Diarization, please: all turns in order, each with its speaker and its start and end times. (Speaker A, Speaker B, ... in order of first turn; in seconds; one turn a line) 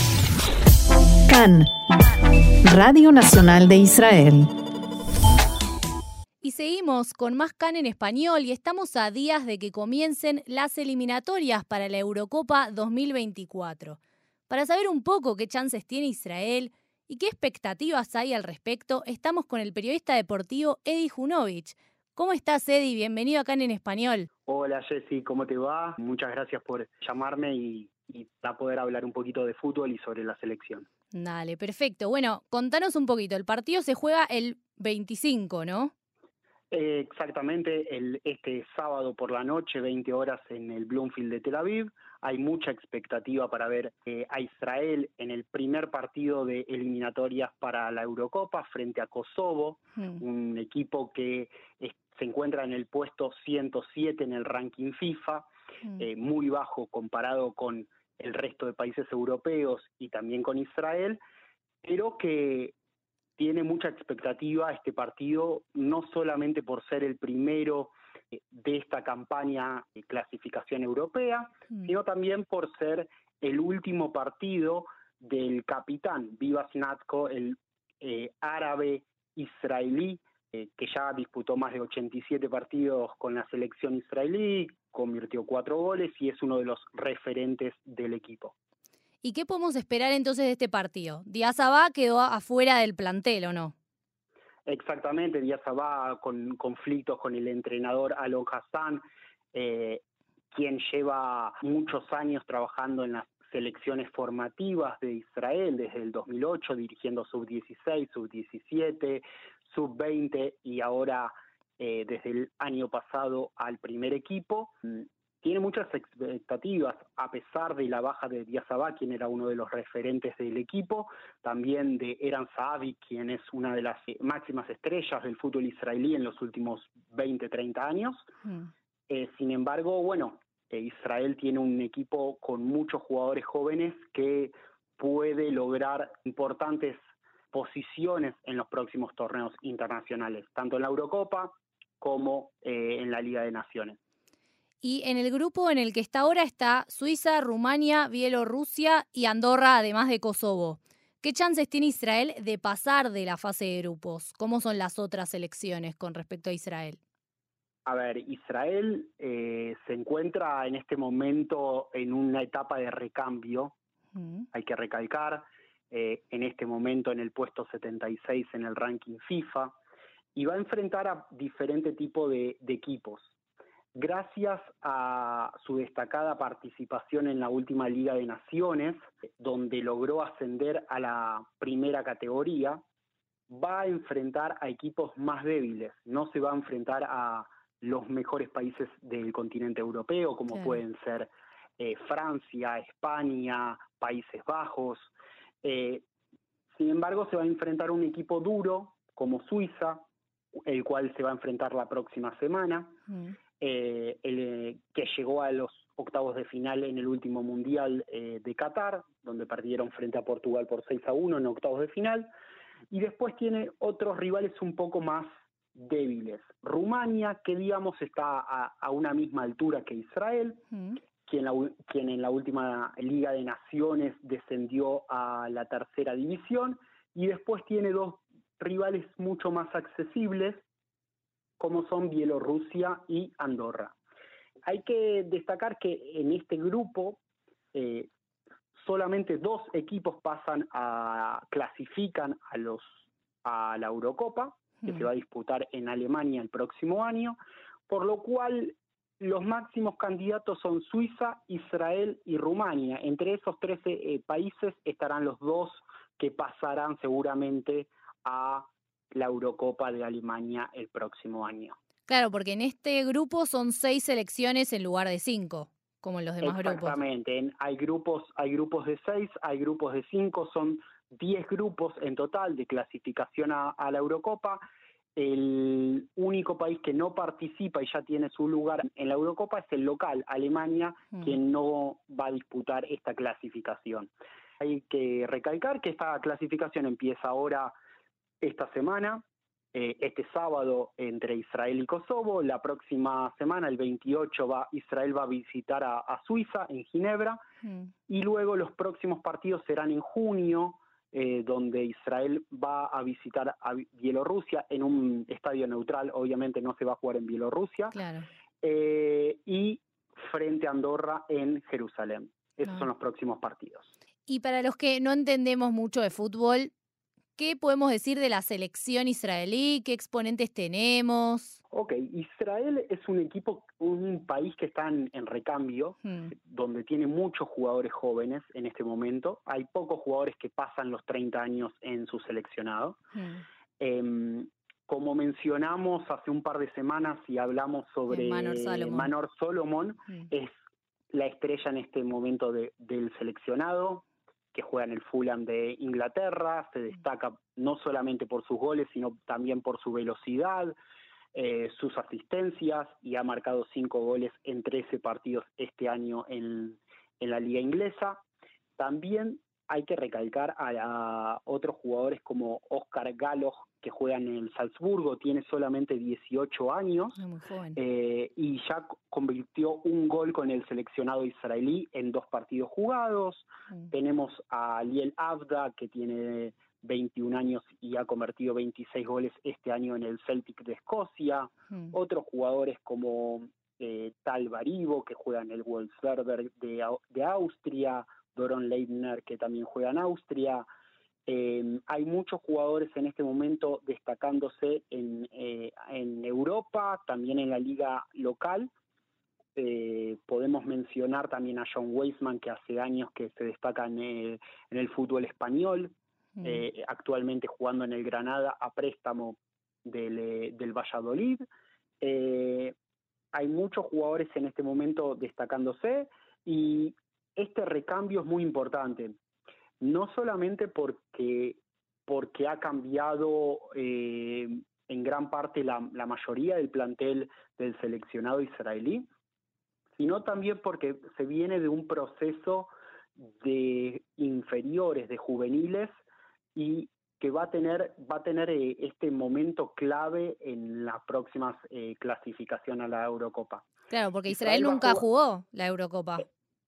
Speaker A: 1.3-1.7
Speaker A: 2.6-4.5
Speaker B: 6.4-14.0
Speaker B: 14.5-24.3
Speaker C: 24.4-30.9
Speaker B: 31.1-35.9
Speaker C: 36.7-55.5
Speaker B: 50.0-50.2
Speaker C: 56.0-61.2
Speaker C: 61.8-62.7
Speaker C: 63.4-88.5
Speaker B: 89.2-93.7
Speaker C: 94.7-128.3
Speaker B: 128.4-128.7
Speaker C: 129.1-137.0
Speaker C: 137.5-144.0
Speaker B: 144.8-157.0
Speaker C: 157.8-163.8
Speaker B: 164.2-164.5
Speaker C: 164.5-169.8
Speaker C: 170.3-173.3
Speaker C: 173.9-182.8
Speaker C: 183.5-195.1
Speaker C: 195.6-196.1
Speaker C: 196.7-200.0
Speaker C: 200.7-203.0
Speaker B: 203.1-203.3
Speaker C: 203.6-212.3
Speaker C: 212.9-220.6
Speaker B: 220.7-221.0
Speaker C: 221.2-230.6
Speaker C: 231.6-233.9
Speaker C: 234.7-237.2
Speaker C: 237.7-238.1
Speaker C: 238.8-247.3
Speaker C: 247.9-261.8
Speaker B: 262.1-267.0
Speaker C: 266.4-274.6
Speaker C: 275.1-287.7
Speaker C: 288.4-297.4
Speaker B: 297.6-297.9
Speaker C: 298.1-308.0
Speaker B: 307.9-308.3
Speaker C: 308.6-313.9
Speaker B: 314.3-316.7
Speaker B: 317.4-321.6
Speaker C: 321.7-333.0
Speaker B: 326.0-326.3
Speaker B: 333.1-333.4
Speaker C: 333.8-340.5
Speaker B: 338.1-339.1
Speaker C: 341.1-350.8
Speaker C: 351.3-358.2
Speaker C: 358.8-367.2
Speaker B: 367.2-367.8
Speaker C: 367.7-390.6
Speaker C: 391.2-398.7
Speaker C: 399.6-411.4
Speaker C: 412.0-412.7
Speaker C: 413.3-419.2
Speaker C: 419.8-429.1
Speaker C: 430.0-435.9
Speaker C: 436.5-443.6
Speaker B: 443.9-446.3
Speaker C: 444.3-445.0